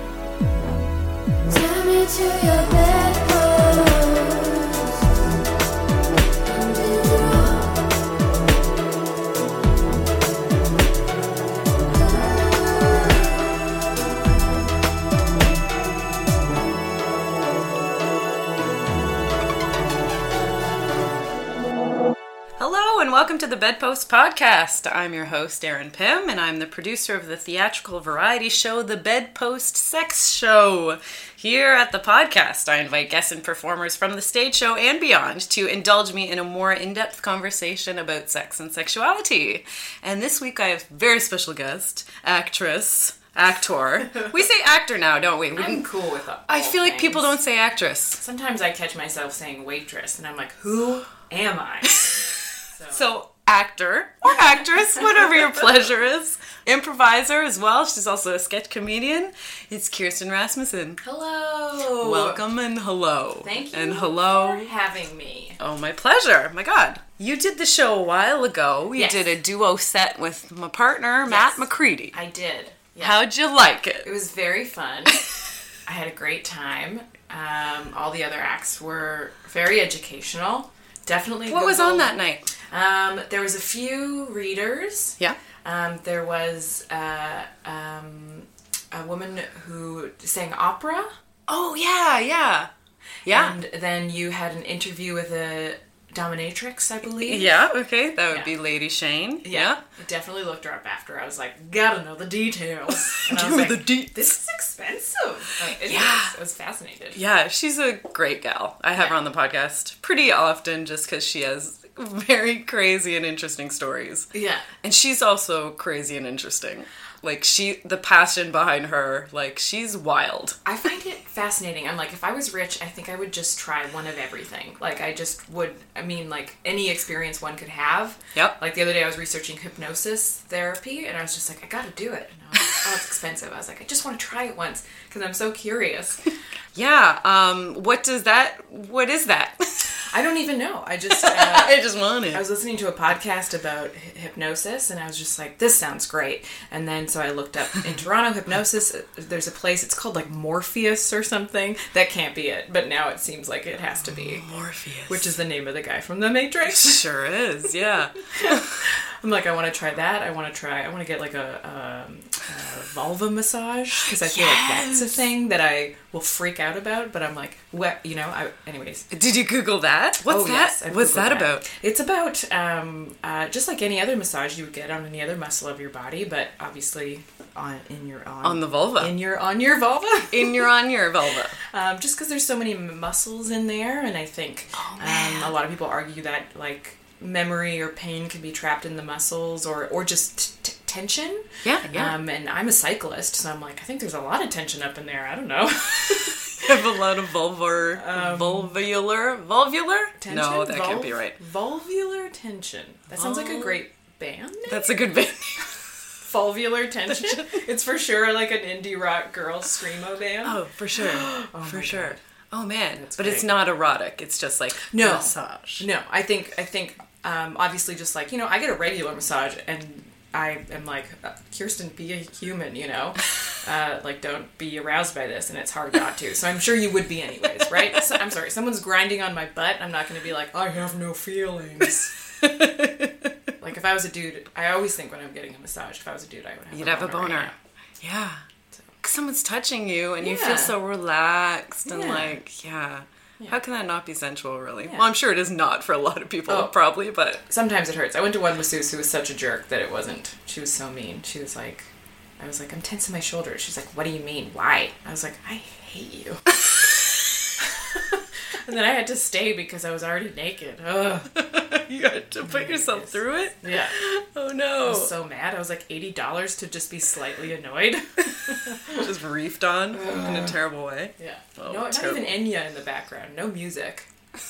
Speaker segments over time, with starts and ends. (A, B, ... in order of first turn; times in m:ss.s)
0:01.4-0:04.9 A
0:06.4-0:07.8 A
0:12.0-0:13.0 A
0:22.6-0:45.8 B
0:45.5-0:47.3 C
0:46.5-0:48.2 B
0:48.2-0:53.1 C
0:52.9-1:01.0 B
1:01.0-1:02.4 C
1:02.0-1:04.7 B
1:03.4-1:05.6 C
1:05.6-1:12.1 B
1:08.9-1:09.3 C
1:11.2-1:13.2 C
1:13.0-1:14.1 B
1:14.0-1:15.2 C
1:15.8-1:22.1 C
1:21.5-1:22.5 B
1:22.7-1:31.1 C
1:31.5-1:32.7 B
1:33.2-1:33.6 B
1:33.3-1:37.5 C
1:37.2-1:39.8 B
1:39.4-1:47.2 C
1:43.1-1:44.3 B
1:45.6-1:46.3 B
1:47.1-1:54.3 B
1:54.3-1:54.7 C
1:54.8-2:00.6 B
2:00.6-2:16.3 C
2:16.7-2:20.0 B
2:20.1-2:21.8 C
2:21.1-2:22.4 B
2:22.3-2:34.4 C
2:34.0-2:35.3 B
2:35.1-2:37.0 C
2:36.6-2:38.8 B
2:38.2-2:49.1 C
2:44.2-2:45.2 B
2:49.1-2:51.6 B
2:50.2-3:00.7 C
2:58.4-2:59.2 B
3:00.3-3:01.6 B
3:01.6-3:16.6 C
3:04.7-3:05.5 B
3:11.6-3:12.1 B
3:16.5-3:21.4 B
3:17.9-3:18.7 C
3:20.2-3:25.0 C
3:23.1-3:23.8 B
3:24.7-3:25.9 B
3:26.2-3:32.2 C
3:27.2-3:27.6 B
3:30.4-3:35.8 B
3:32.9-3:33.5 C
3:34.9-3:52.1 C
3:52.4-3:53.3 B
3:53.6-3:57.5 C
3:56.7-3:58.4 B
3:59.0-4:07.4 B
4:00.2-4:00.7 C
4:01.9-4:02.4 C
4:06.5-4:06.7 C
4:07.4-4:16.5 C
4:17.6-4:21.4 C
4:21.3-4:25.1 B
4:22.4-4:23.9 C
4:24.8-4:29.1 C
4:28.8-4:32.3 B
4:29.9-4:30.6 C
4:31.2-4:34.1 C